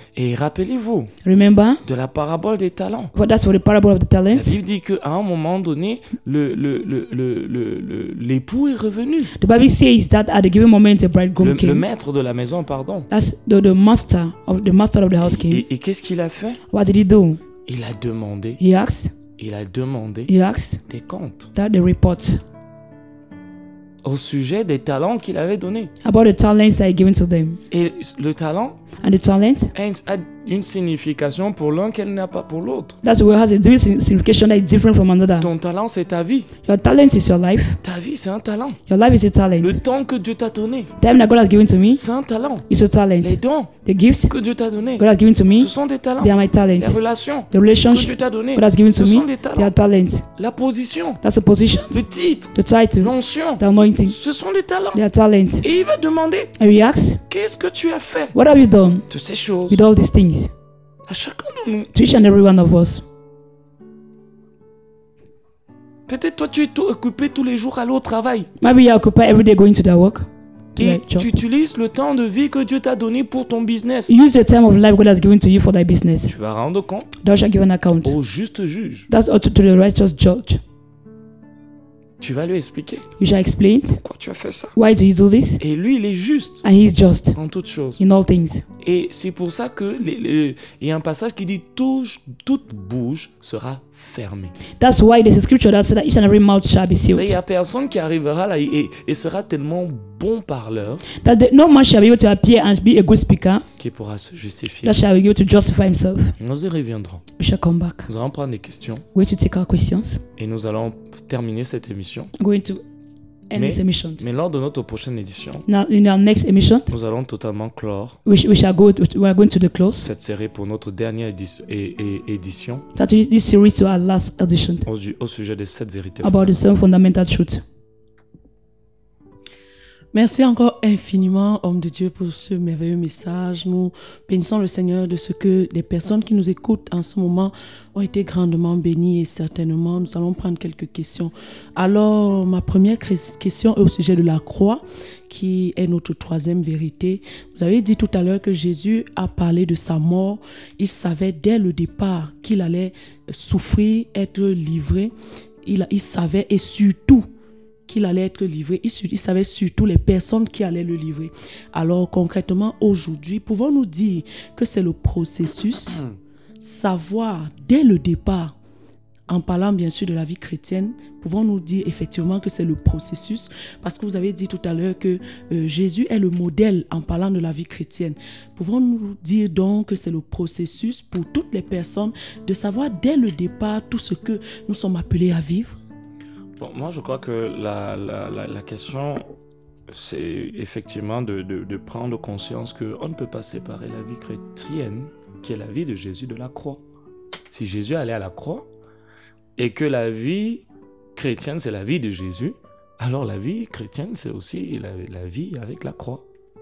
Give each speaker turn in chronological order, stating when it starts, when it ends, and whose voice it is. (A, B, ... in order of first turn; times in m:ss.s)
0:00.1-0:01.1 A
0:01.2-0:01.8 B
0:01.8-0:03.1 A
0:03.1-0:04.6 B
0:04.3-0:09.3 A
0:09.4-0:11.8 B
0:11.4-0:13.1 A
0:13.1-0:15.6 B
0:15.2-0:16.6 A
0:16.7-0:17.4 B
0:17.6-0:18.6 A
0:18.6-0:19.1 B
0:19.4-0:20.3 A
0:20.3-0:20.8 B
0:20.9-0:21.5 A
0:21.5-0:22.4 B
0:24.0-0:25.9 A
0:26.0-0:27.6 B
0:27.7-0:28.8 A
0:29.0-0:29.7 B
0:29.7-0:33.0 A
0:33.0-0:35.5 B
0:35.4-0:36.5 A
0:36.6-0:37.8 B
0:37.8-0:38.8 A
0:38.9-0:39.8 B
0:39.6-0:40.9 A
0:41.0-0:42.0 B
0:41.9-0:42.6 A
0:42.7-0:44.4 B
0:43.2-0:43.7 A
0:44.3-0:49.7 A
0:45.0-0:47.0 B
0:47.5-0:50.2 B
0:50.4-0:51.2 A
0:51.2-0:52.0 B
0:51.9-0:55.0 A
0:52.5-0:54.2 B
0:54.9-0:55.7 B
0:55.6-0:56.5 A
0:56.6-0:57.2 B
0:57.3-0:58.4 A
0:58.3-0:59.1 B
0:59.1-0:59.8 A
0:59.7-1:00.5 B
1:01.0-1:01.9 A
1:01.9-1:03.0 B
1:06.1-1:08.5 A
1:08.6-1:11.3 B
1:10.8-1:14.1 A
1:14.1-1:16.3 B
1:16.2-1:17.2 A
1:17.2-1:18.2 B
1:18.0-1:19.1 A
1:19.1-1:20.6 B
1:22.2-1:23.1 A
1:23.2-1:24.0 B
1:24.0-1:24.7 A
1:24.8-1:25.6 B
1:25.6-1:26.6 A
1:26.6-1:27.4 B
1:27.3-1:28.0 A
1:28.0-1:28.6 B
1:28.8-1:34.5 A
1:34.8-1:37.4 B
1:37.1-1:41.0 A
1:41.1-1:43.6 B
1:43.8-1:45.0 A
1:44.8-1:46.4 B
1:46.4-1:47.2 A
1:47.4-1:48.1 B
1:48.1-1:49.0 A
1:49.1-1:50.2 B
1:50.4-1:52.3 A
1:52.4-1:52.8 B
1:53.5-1:54.2 B
1:53.5-1:55.6 A
1:55.7-1:56.9 B
1:56.9-1:58.2 A
1:58.2-2:00.1 B
2:00.0-2:02.8 A
2:02.9-2:04.9 B
2:04.8-2:06.5 A
2:06.2-2:07.6 B
2:10.1-2:35.1 C
2:35.6-2:37.2 C
2:37.9-2:46.1 C
2:46.6-2:48.5 C
2:49.3-3:05.8 C
3:06.6-3:09.3 A
3:09.9-3:16.8 A
3:17.5-3:18.7 A
3:19.6-3:26.2 A